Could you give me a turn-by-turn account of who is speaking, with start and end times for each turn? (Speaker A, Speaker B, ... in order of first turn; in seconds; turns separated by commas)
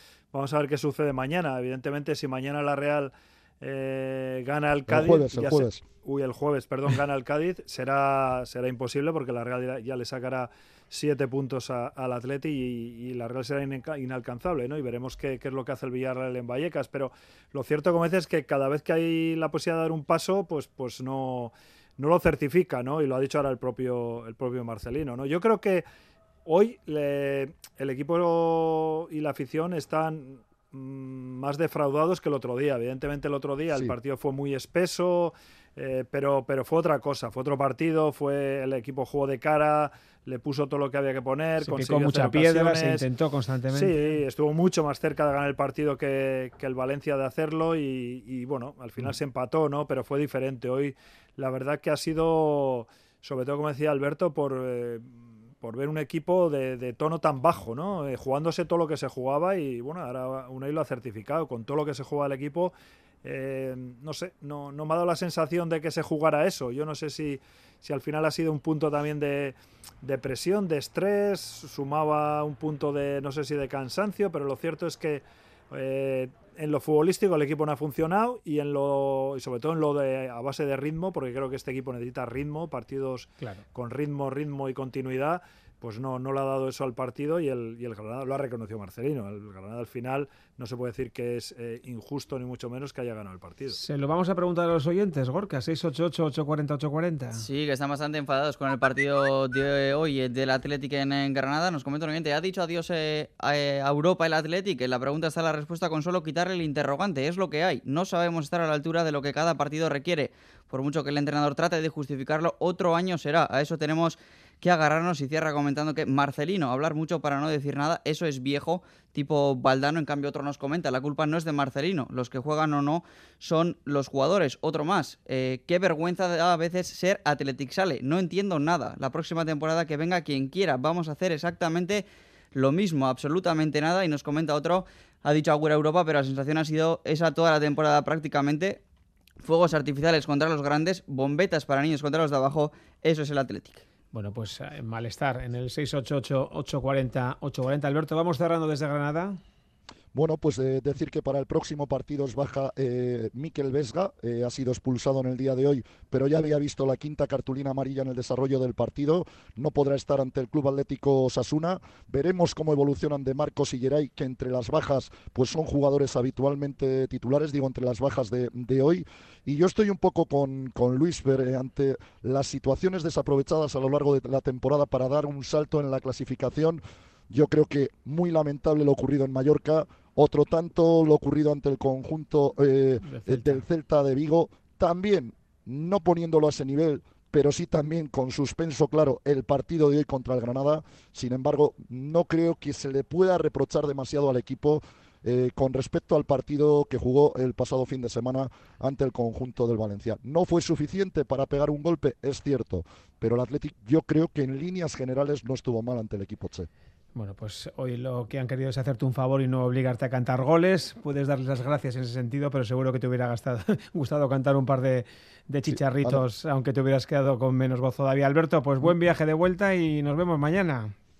Speaker A: 0.3-25.8, Speaker B: 4.9-5.8, Speaker A: 26.4-43.0, Speaker C: 41.6-44.1, Speaker A: 43.7-62.7, Speaker A: 63.2-93.8, Speaker C: 93.7-97.4, Speaker D: 97.3-138.8, Speaker D: 139.4-143.8, Speaker C: 144.1-149.4, Speaker B: 150.1-206.7, Speaker C: 183.0-183.6, Speaker C: 207.1-220.9, Speaker B: 215.7-216.2